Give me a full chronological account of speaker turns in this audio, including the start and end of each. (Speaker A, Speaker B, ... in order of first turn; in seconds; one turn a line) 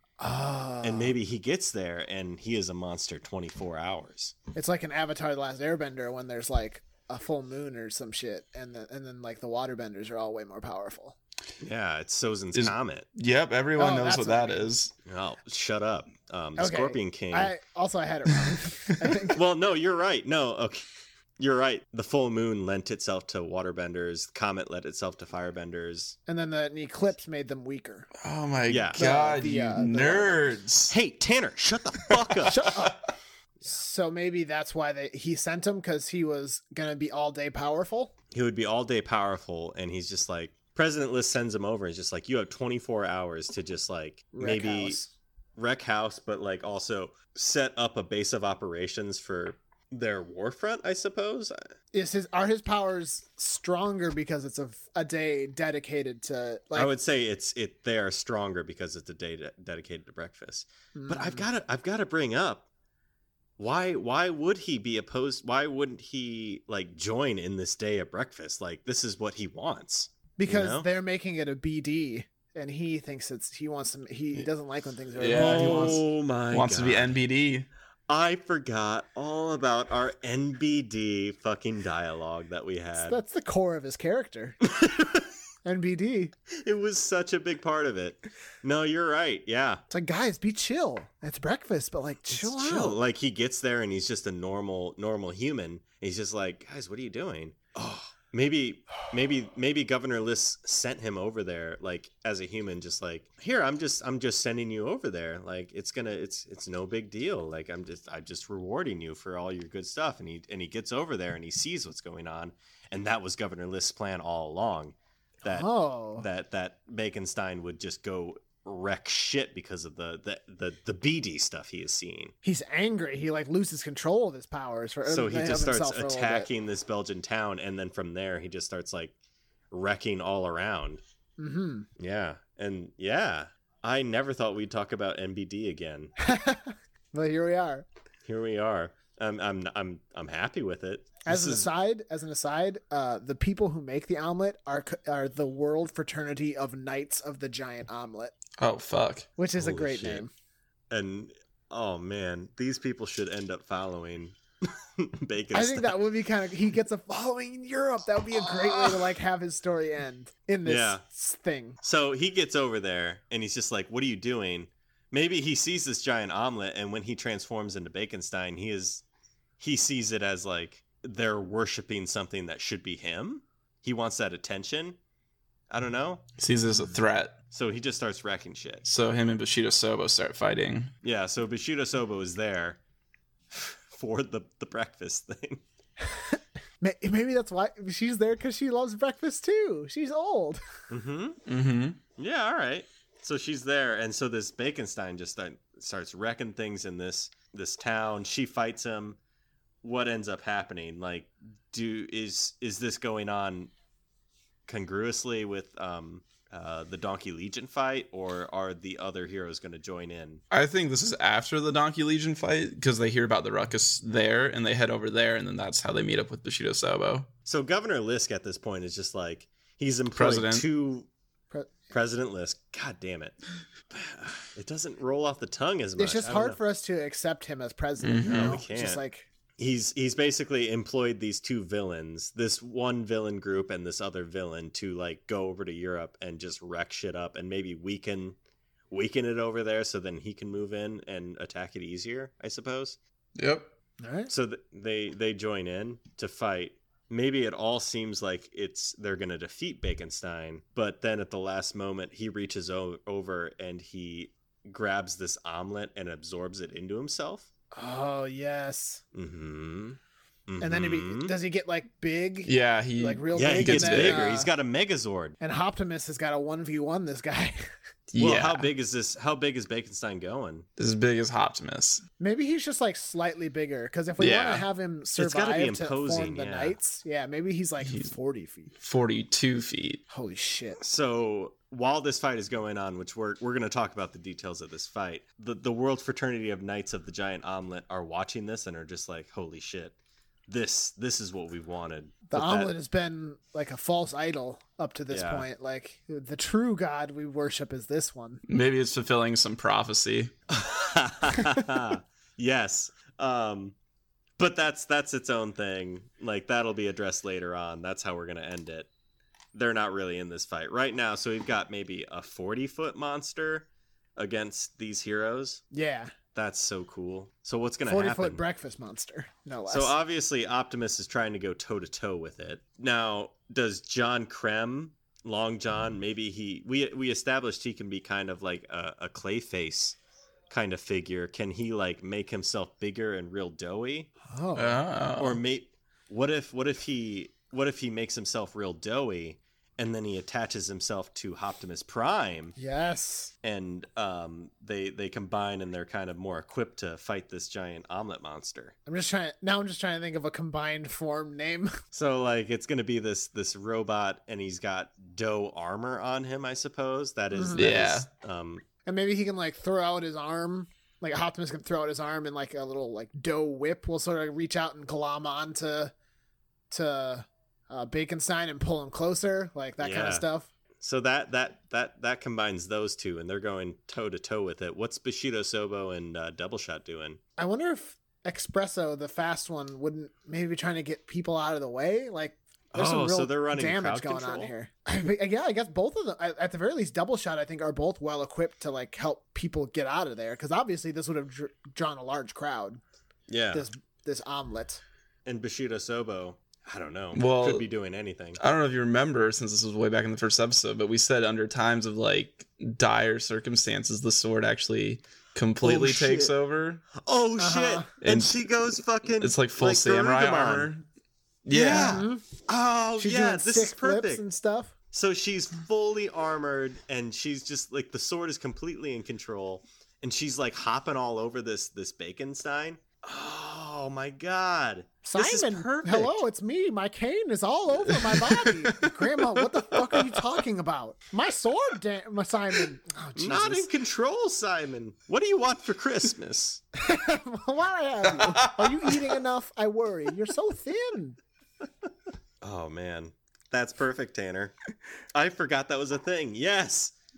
Speaker A: 0.2-1.1
Speaker B: 0.8-4.3
Speaker A: 4.5-11.2
Speaker B: 11.6-13.1
Speaker C: 12.6-14.9
Speaker A: 13.8-14.7
Speaker B: 15.1-17.5
Speaker A: 16.6-19.4
Speaker B: 19.3-20.8
Speaker B: 21.4-26.2
Speaker A: 26.3-28.1
Speaker C: 28.2-30.9
Speaker B: 28.7-29.1
Speaker A: 29.0-30.6
Speaker B: 30.9-32.7
Speaker A: 32.5-33.0
Speaker A: 33.6-38.1
Speaker B: 38.3-45.0
Speaker A: 44.4-45.1
Speaker B: 45.6-51.7
Speaker A: 51.9-56.9
Speaker B: 56.7-62.7
Speaker A: 61.0-61.5
Speaker B: 63.6-70.9
Speaker A: 70.4-76.0
Speaker C: 75.2-77.7
Speaker B: 75.3-77.1
Speaker B: 78.1-83.2
Speaker A: 83.0-84.6
Speaker B: 84.7-85.3
Speaker A: 85.6-86.3
Speaker B: 86.6-89.8
Speaker A: 89.9-93.0
Speaker B: 92.3-122.3
Speaker A: 115.5-116.2
Speaker A: 122.4-126.5
Speaker B: 125.0-129.1
Speaker B: 129.7-131.0
Speaker A: 131.4-131.9
Speaker B: 132.0-136.1
Speaker A: 136.2-137.9
Speaker B: 138.3-141.7
Speaker A: 141.3-148.3
Speaker C: 148.6-149.3
Speaker A: 149.4-150.3
Speaker B: 149.6-150.2
Speaker B: 150.9-155.9
Speaker A: 155.5-161.8
Speaker B: 158.5-159.0
Speaker B: 160.6-161.0
Speaker B: 161.8-169.0
Speaker B: 169.6-175.0
Speaker B: 175.7-176.2
Speaker C: 176.4-177.4
Speaker B: 177.5-178.8
Speaker C: 178.8-180.9
Speaker B: 181.0-182.8
Speaker B: 183.5-185.6
Speaker A: 186.1-190.6
Speaker B: 190.9-191.4
Speaker C: 191.5-192.0
Speaker B: 192.2-199.2
Speaker B: 199.8-203.7
Speaker B: 204.7-210.4
Speaker C: 210.5-217.3
Speaker B: 217.5-221.1
Speaker C: 220.1-220.7
Speaker A: 221.5-221.9
Speaker B: 221.9-223.4
Speaker B: 223.9-226.6
Speaker A: 226.0-229.3
Speaker C: 228.0-228.6
Speaker B: 228.3-229.0
Speaker B: 229.6-238.4
Speaker B: 238.9-243.0
Speaker C: 243.4-243.7
Speaker A: 244.0-244.3
Speaker B: 244.3-257.5
Speaker A: 257.7-259.0
Speaker B: 259.1-261.3
Speaker A: 260.6-264.5
Speaker C: 262.4-264.3
Speaker B: 263.3-265.4
Speaker A: 265.4-267.7
Speaker C: 268.1-268.7
Speaker B: 268.2-270.7
Speaker C: 270.8-272.0
Speaker A: 272.2-278.7
Speaker C: 274.2-274.7
Speaker B: 275.2-276.8
Speaker C: 277.8-278.1
Speaker C: 278.8-280.0
Speaker A: 280.1-280.8
Speaker B: 280.8-290.0
Speaker B: 290.5-292.7
Speaker A: 292.3-298.4
Speaker B: 295.1-295.5
Speaker C: 298.5-300.3
Speaker B: 300.5-303.8
Speaker B: 304.4-308.9
Speaker B: 309.5-315.6
Speaker A: 315.7-316.1
Speaker B: 316.3-318.4
Speaker A: 317.9-319.9
Speaker B: 319.7-330.0
Speaker B: 330.5-334.1
Speaker A: 334.3-334.8
Speaker C: 334.6-335.4
Speaker B: 335.2-342.6
Speaker A: 342.6-343.3
Speaker B: 343.4-348.7
Speaker A: 348.9-351.8
Speaker B: 351.9-358.6
Speaker A: 357.3-357.9
Speaker C: 357.6-358.1
Speaker A: 358.9-365.9
Speaker A: 366.7-370.5
Speaker B: 369.8-370.3
Speaker B: 370.8-377.2
Speaker A: 377.4-392.8
Speaker B: 382.7-384.5
Speaker B: 393.3-393.7
Speaker A: 393.5-394.8
Speaker B: 395.3-398.4
Speaker C: 397.1-397.7
Speaker C: 398.4-406.8
Speaker B: 405.6-406.3
Speaker B: 406.9-410.7
Speaker A: 407.4-407.9
Speaker C: 408.0-408.4
Speaker C: 409.2-410.9
Speaker C: 411.4-412.0
Speaker B: 411.5-414.2
Speaker A: 411.7-412.2
Speaker A: 413.0-414.8
Speaker B: 414.9-426.2
Speaker A: 425.0-433.7
Speaker C: 427.9-430.2
Speaker B: 433.2-436.6
Speaker A: 436.8-441.2
Speaker C: 438.1-439.1
Speaker B: 442.4-444.5
Speaker B: 445.1-446.9